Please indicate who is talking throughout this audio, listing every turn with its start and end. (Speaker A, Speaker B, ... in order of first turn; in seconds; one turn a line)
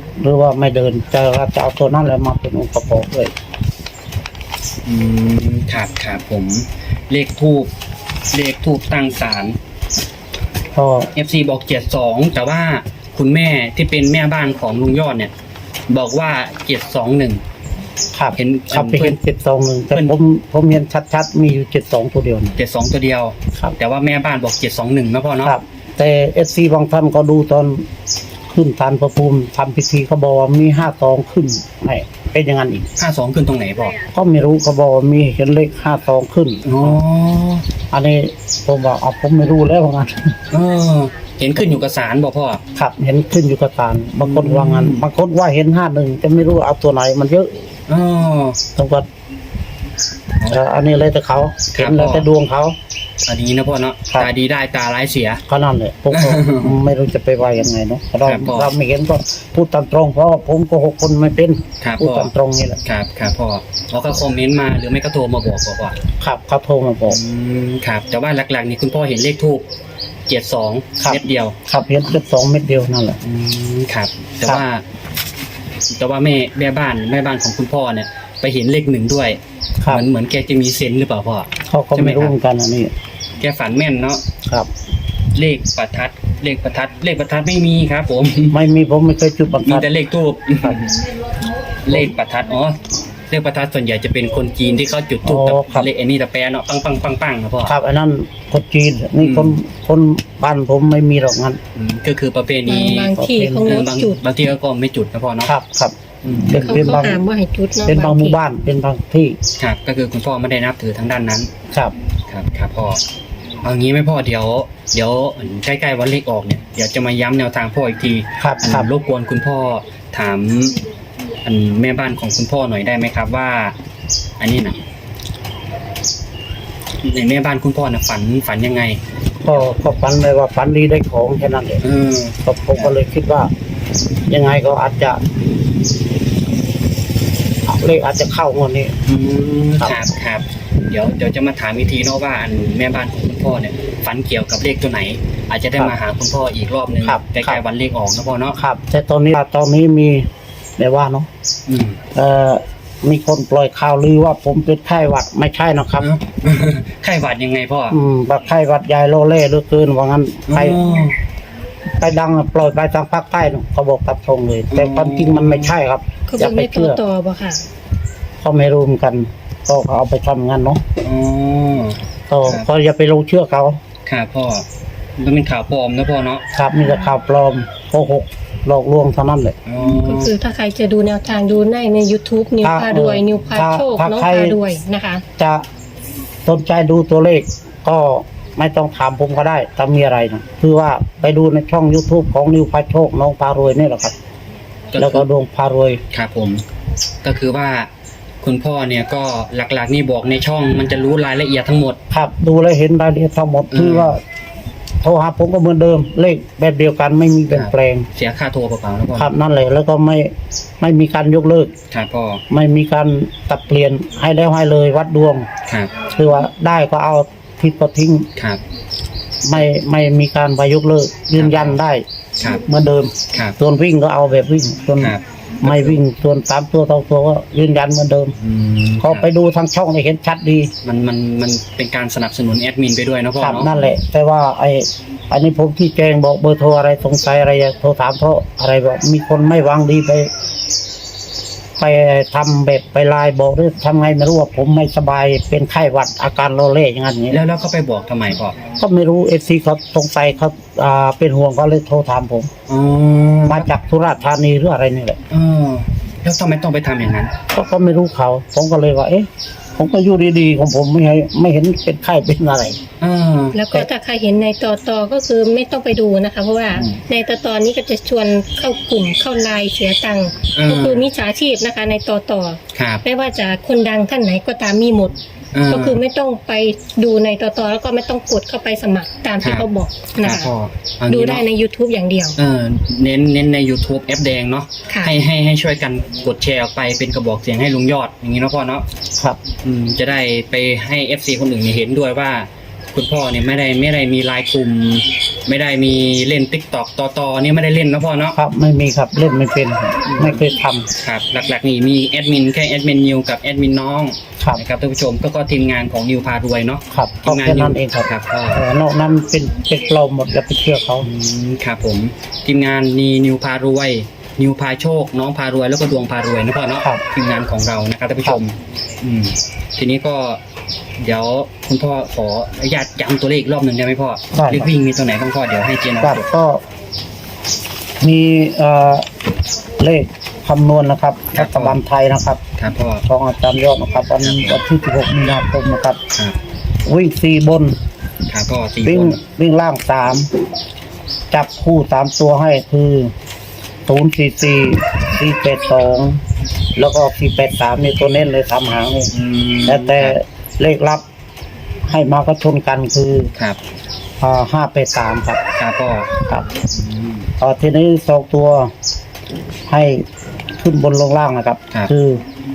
Speaker A: 0.2-3.3
Speaker B: 4.8-7.7
Speaker B: 8.3-9.6
Speaker A: 10.7-11.1
Speaker B: 11.1-15.3
Speaker B: 15.9-17.4
Speaker A: 18.1-22.5
Speaker B: 18.3-19.2
Speaker B: 22.6-25.6
Speaker A: 25.4-27.9
Speaker A: 28.5-32.9
Speaker B: 33.0-34.0
Speaker A: 34.1-36.9
Speaker B: 36.6-37.6
Speaker A: 37.9-40.4
Speaker B: 40.5-42.6
Speaker A: 42.7-47.6
Speaker B: 44.2-45.0
Speaker B: 47.9-48.6
Speaker A: 48.8-49.1
Speaker A: 50.5-52.7
Speaker B: 51.7-52.3
Speaker B: 53.2-55.4
Speaker A: 55.5-62.8
Speaker B: 56.1-56.7
Speaker B: 58.2-58.7
Speaker B: 61.8-62.3
Speaker B: 62.8-66.0
Speaker A: 66.2-67.2
Speaker B: 67.1-69.7
Speaker B: 70.3-71.5
Speaker A: 71.0-73.2
Speaker B: 73.2-74.8
Speaker B: 75.9-82.3
Speaker A: 81.7-82.9
Speaker B: 83.4-84.2
Speaker A: 84.4-84.7
Speaker B: 85.3-88.6
Speaker A: 88.5-89.9
Speaker B: 89.6-90.9
Speaker B: 91.8-97.7
Speaker A: 95.2-95.9
Speaker A: 97.6-101.6
Speaker B: 99.2-99.6
Speaker B: 101.7-105.5
Speaker C: 102.7-104.2
Speaker A: 103.1-103.9
Speaker A: 105.5-107.2
Speaker B: 106.2-107.0
Speaker C: 106.5-108.4
Speaker A: 107.8-109.4
Speaker B: 109.6-111.5
Speaker B: 112.3-113.0
Speaker B: 113.6-120.8
Speaker A: 118.4-118.9
Speaker B: 121.4-123.8
Speaker B: 124.4-124.8
Speaker B: 127.0-129.0
Speaker A: 129.4-131.8
Speaker B: 131.8-132.9
Speaker A: 132.4-133.5
Speaker A: 134.3-135.2
Speaker A: 137.6-138.9
Speaker B: 139.1-148.6
Speaker A: 147.0-147.6
Speaker A: 148.6-151.3
Speaker B: 151.7-152.0
Speaker A: 152.1-156.1
Speaker B: 156.0-158.0
Speaker A: 157.9-160.8
Speaker B: 160.5-161.2
Speaker A: 162.0-167.0
Speaker B: 164.7-165.7
Speaker C: 166.3-167.6
Speaker A: 168.4-170.8
Speaker B: 171.0-172.7
Speaker A: 172.3-173.8
Speaker B: 174.1-174.7
Speaker B: 175.2-176.4
Speaker A: 176.5-179.6
Speaker B: 179.7-180.3
Speaker C: 179.9-185.2
Speaker A: 182.6-184.6
Speaker A: 185.4-185.6
Speaker A: 186.4-194.1
Speaker B: 194.9-195.2
Speaker A: 195.0-196.0
Speaker B: 196.1-196.6
Speaker B: 197.2-197.9
Speaker B: 198.4-202.0
Speaker A: 202.1-204.2
Speaker B: 203.7-204.2
Speaker A: 205.0-208.1
Speaker B: 207.5-209.3
Speaker A: 209.1-211.7
Speaker B: 211.9-212.4
Speaker A: 212.5-215.5
Speaker B: 215.7-215.9
Speaker A: 216.0-218.3
Speaker A: 219.4-222.0
Speaker B: 221.3-221.8
Speaker A: 222.6-228.3
Speaker B: 225.0-226.0
Speaker B: 228.4-229.3
Speaker A: 229.0-230.7
Speaker B: 230.8-233.7
Speaker A: 233.4-240.3
Speaker A: 241.8-247.4
Speaker B: 247.3-248.6
Speaker A: 248.8-252.5
Speaker B: 252.7-253.7
Speaker A: 253.4-255.2
Speaker B: 255.3-257.3
Speaker A: 257.5-262.8
Speaker B: 263.0-263.6
Speaker C: 263.5-275.2
Speaker B: 270.5-271.1
Speaker B: 272.7-273.0
Speaker B: 275.5-276.0
Speaker C: 275.7-280.5
Speaker B: 279.4-279.6
Speaker B: 280.2-281.4
Speaker C: 281.1-282.4
Speaker B: 282.4-288.8
Speaker B: 289.6-298.4
Speaker A: 298.4-300.9
Speaker B: 300.1-300.4
Speaker B: 301.0-308.6
Speaker A: 306.9-311.1
Speaker B: 311.0-320.4
Speaker B: 321.0-326.3
Speaker A: 324.3-324.7
Speaker A: 326.0-326.6
Speaker A: 328.0-329.1
Speaker A: 329.8-332.4
Speaker B: 331.4-331.8
Speaker B: 332.6-333.1
Speaker A: 333.1-336.0
Speaker B: 334.2-334.6
Speaker A: 336.9-337.8
Speaker B: 338.3-339.2
Speaker A: 338.8-340.3
Speaker A: 341.3-343.1
Speaker A: 343.9-346.2
Speaker A: 346.8-349.1
Speaker B: 349.1-350.2
Speaker A: 349.6-351.0
Speaker A: 351.9-353.3
Speaker A: 354.2-355.4
Speaker B: 355.6-356.1
Speaker A: 356.2-356.5
Speaker B: 356.7-357.3
Speaker A: 357.4-358.7
Speaker A: 359.7-362.2